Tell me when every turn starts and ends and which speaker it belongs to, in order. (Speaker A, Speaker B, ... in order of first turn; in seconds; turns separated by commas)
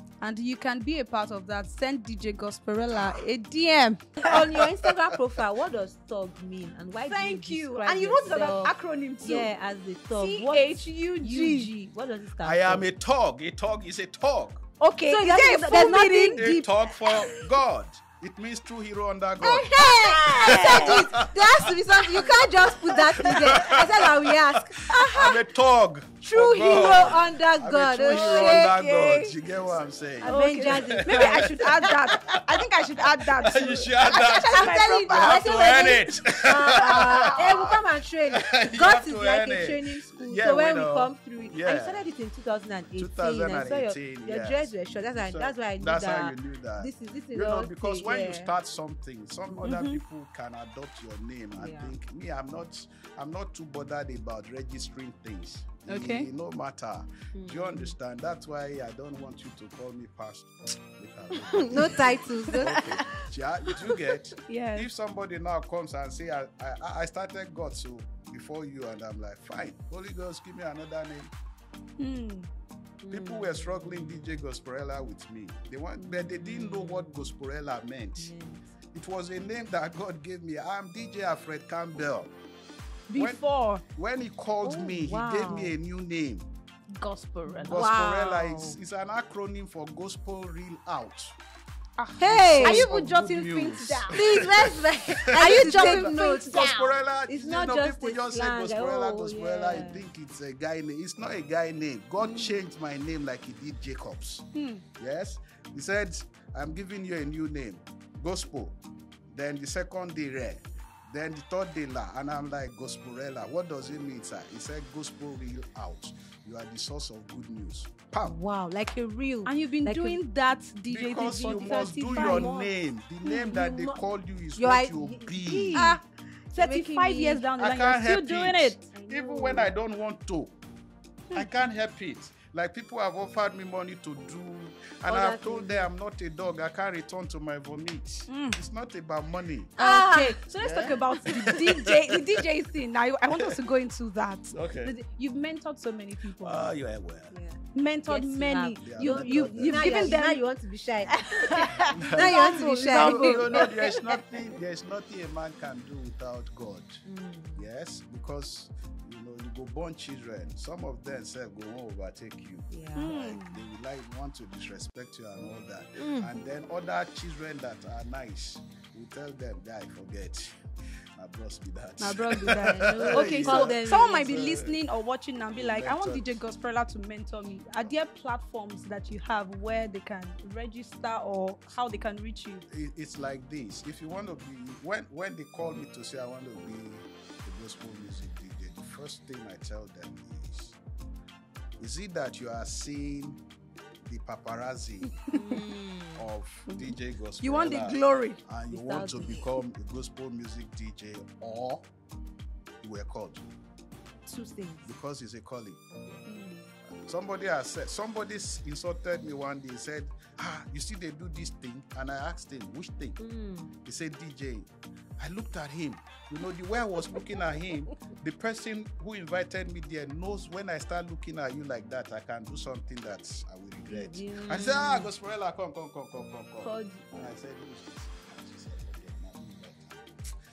Speaker A: 0.2-4.4, Speaker B: 2.9-3.2, Speaker C: 4.2-12.9, Speaker B: 4.5-4.9, Speaker A: 7.0-9.5, Speaker A: 10.2-11.7, Speaker B: 12.4-14.6, Speaker A: 14.8-16.5, Speaker C: 15.1-16.7, Speaker B: 16.3-37.8, Speaker A: 17.0-17.4, Speaker C: 19.4-25.4, Speaker A: 19.9-21.0, Speaker C: 26.2-28.8, Speaker A: 28.0-29.4, Speaker C: 30.2-31.9, Speaker A: 30.2-36.0, Speaker C: 34.5-48.5, Speaker A: 36.7-37.8, Speaker B: 38.3-42.1, Speaker B: 42.9-71.3, Speaker A: 49.6-50.0, Speaker C: 51.6-51.9, Speaker A: 55.9-56.3, Speaker C: 57.3-57.9, Speaker C: 61.5-62.9, Speaker A: 62.5-63.8, Speaker A: 64.4-64.9, Speaker A: 72.0-72.5, Speaker C: 73.0-74.2, Speaker B: 73.1-78.3, Speaker C: 76.0-77.3, Speaker C: 78.2-78.6, Speaker B: 78.9-82.3, Speaker A: 83.1-83.8, Speaker B: 83.2-83.4, Speaker B: 83.9-86.5, Speaker C: 84.6-85.8, Speaker A: 86.9-87.8, Speaker C: 87.6-88.8, Speaker B: 87.6-91.3, Speaker A: 92.0-94.4, Speaker C: 92.2-92.9, Speaker B: 92.2-104.5, Speaker C: 94.1-96.7, Speaker A: 95.3-97.0, Speaker C: 97.3-100.0, Speaker A: 102.2-102.6, Speaker A: 104.5-104.8, Speaker B: 105.0-108.8, Speaker B: 109.3-118.4, Speaker C: 118.2-120.2, Speaker A: 119.5-122.6, Speaker B: 120.9-125.9, Speaker C: 121.4-122.7, Speaker C: 123.2-124.0, Speaker C: 124.5-126.0, Speaker A: 125.7-126.0, Speaker A: 126.5-128.8, Speaker C: 126.5-127.4, Speaker B: 127.6-130.5, Speaker C: 128.9-129.7, Speaker B: 131.3-139.7, Speaker C: 135.1-135.9, Speaker A: 138.3-138.6, Speaker C: 139.8-140.4, Speaker A: 139.8-146.6, Speaker B: 140.6-142.4, Speaker B: 143.3-143.7, Speaker B: 144.5-144.9, Speaker B: 146.4-147.3, Speaker C: 147.3-154.2, Speaker A: 147.7-150.4, Speaker B: 148.8-150.2, Speaker A: 151.1-154.0, Speaker B: 151.8-157.0, Speaker C: 157.0-157.7, Speaker B: 157.6-170.6, Speaker C: 162.7-163.1, Speaker A: 163.0-163.7, Speaker C: 166.0-166.3, Speaker B: 171.2-174.8, Speaker A: 172.0-182.6, Speaker C: 172.6-174.2, Speaker B: 175.5-176.4, Speaker B: 182.7-190.8, Speaker B: 191.8-193.4, Speaker B: 194.0-195.2, Speaker C: 195.3-196.2, Speaker B: 196.2-201.9, Speaker A: 196.7-198.4, Speaker C: 198.7-199.5, Speaker B: 202.8-203.5, Speaker C: 204.2-204.9, Speaker B: 204.8-205.8, Speaker A: 206.2-206.7, Speaker B: 207.0-213.2, Speaker C: 213.2-213.7, Speaker B: 213.8-230.1, Speaker C: 223.9-225.1, Speaker C: 226.7-227.0